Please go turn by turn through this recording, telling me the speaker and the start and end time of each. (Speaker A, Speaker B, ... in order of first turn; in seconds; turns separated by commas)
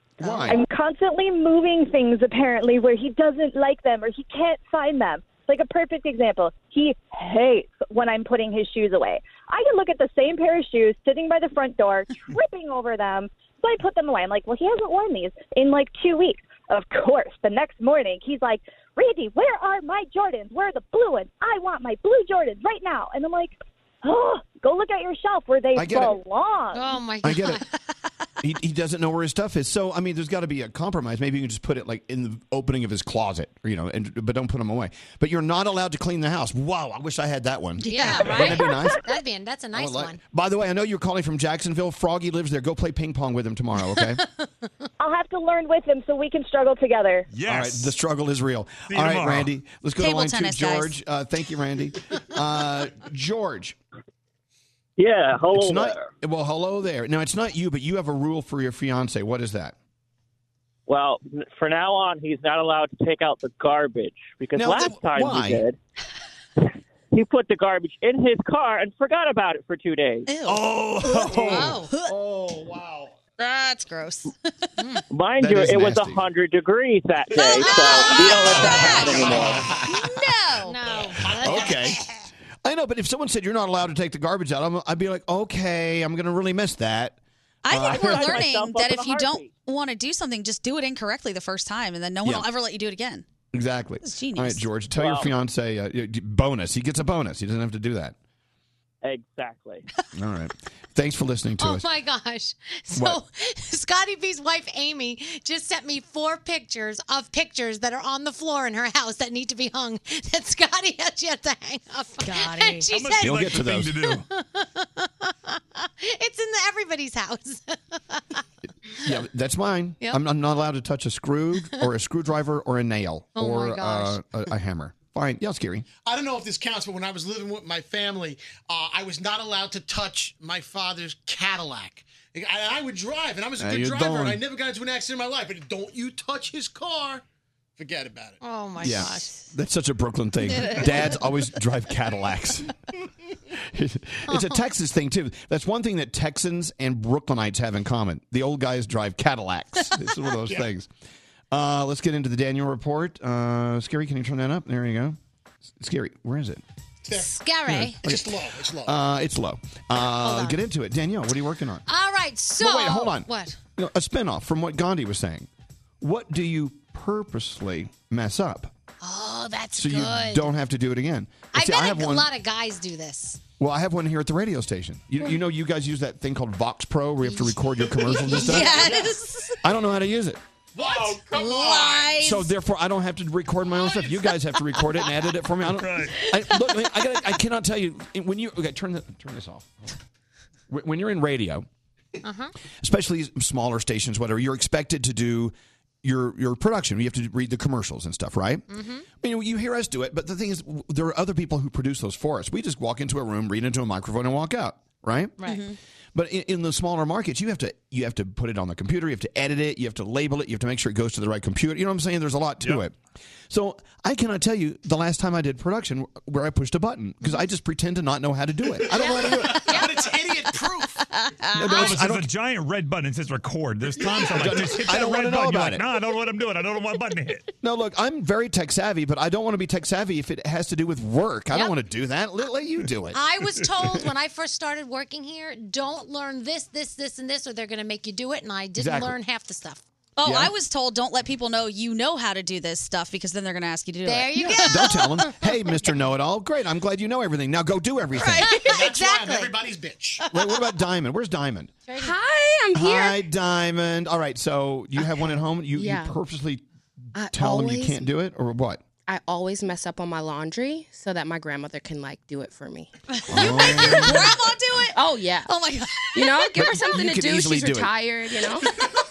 Speaker A: 0.2-0.6, Speaker B: 0.3-0.5, Speaker C: 0.5-19.3, Speaker C: 24.1-26.7, Speaker A: 25.7-26.2, Speaker D: 26.7-27.7, Speaker A: 27.2-27.6, Speaker A: 28.4-39.0, Speaker B: 37.9-38.5, Speaker D: 37.9-40.2, Speaker A: 39.7-44.2, Speaker C: 45.0-47.3, Speaker E: 47.3-47.9, Speaker A: 47.4-53.8, Speaker E: 48.9-49.5, Speaker B: 50.0-51.0, Speaker F: 55.0-56.1, Speaker A: 55.5-59.8, Speaker F: 60.9-65.8, Speaker A: 64.5-65.6, Speaker F: 67.1-70.3, Speaker B: 70.3-72.1, Speaker A: 70.5-71.8, Speaker G: 71.2-73.2, Speaker D: 71.5-71.9, Speaker B: 73.4-74.3, Speaker F: 75.1-79.5, Speaker A: 75.4-76.2, Speaker B: 77.3-80.9, Speaker D: 77.5-78.4, Speaker A: 78.5-79.6, Speaker D: 80.7-82.2, Speaker A: 81.4-82.0, Speaker A: 82.6-87.2, Speaker B: 87.7-93.3, Speaker A: 87.7-88.4, Speaker F: 87.7-89.5, Speaker A: 93.5-98.2, Speaker B: 94.0-94.6, Speaker F: 95.0-95.3, Speaker F: 99.0-99.8, Speaker A: 100.1-101.9, Speaker D: 101.6-118.4, Speaker A: 102.9-103.2, Speaker B: 112.2-112.9, Speaker E: 112.9-114.2, Speaker A: 113.2-114.0, Speaker A: 119.0-125.9, Speaker D: 123.4-124.2, Speaker G: 126.0-137.2, Speaker A: 133.6-134.4, Speaker G: 137.8-138.4, Speaker D: 138.4-139.4, Speaker A: 138.8-142.7, Speaker A: 143.7-150.9, Speaker D: 144.3-144.6, Speaker A: 151.5-155.2, Speaker A: 155.8-156.6, Speaker D: 157.1-158.0, Speaker A: 157.7-158.3, Speaker G: 158.0-158.9, Speaker A: 158.8-161.8, Speaker D: 160.2-160.6, Speaker D: 161.9-163.6, Speaker A: 162.6-165.5, Speaker A: 166.0-168.7, Speaker D: 169.0-170.5, Speaker A: 169.8-172.3, Speaker D: 171.5-173.4, Speaker A: 173.6-178.9, Speaker D: 177.2-179.0, Speaker B: 178.2-179.6, Speaker A: 179.6-180.4, Speaker G: 180.8-182.0, Speaker B: 181.1-182.5, Speaker A: 182.2-189.9, Speaker E: 185.7-186.2, Speaker A: 190.7-191.7, Speaker D: 192.2-192.5, Speaker A: 192.8-198.7, Speaker D: 198.7-199.1, Speaker A: 199.2-205.3, Speaker D: 205.4-205.7, Speaker B: 205.4-205.8, Speaker A: 206.1-213.0, Speaker A: 213.5-219.8, Speaker D: 218.9-219.9, Speaker G: 219.2-221.0, Speaker B: 221.1-221.9, Speaker A: 221.5-222.3, Speaker E: 221.7-227.5, Speaker G: 224.0-224.5, Speaker A: 224.2-225.8, Speaker A: 227.6-233.2, Speaker D: 233.1-239.8, Speaker A: 238.8-239.2, Speaker B: 240.2-244.8, Speaker A: 240.2-240.5, Speaker D: 244.1-245.7, Speaker A: 244.4-248.5, Speaker B: 248.2-248.7, Speaker D: 248.4-249.6, Speaker G: 248.7-250.2, Speaker A: 250.3-251.7, Speaker D: 251.9-252.2, Speaker H: 252.0-253.2, Speaker A: 252.7-256.6, Speaker H: 255.7-256.2, Speaker H: 257.1-258.1, Speaker A: 257.2-258.8, Speaker H: 259.1-262.9, Speaker B: 263.3-266.9, Speaker A: 263.3-264.3, Speaker H: 263.4-264.4, Speaker H: 264.9-265.5, Speaker H: 266.1-268.7, Speaker A: 266.6-267.9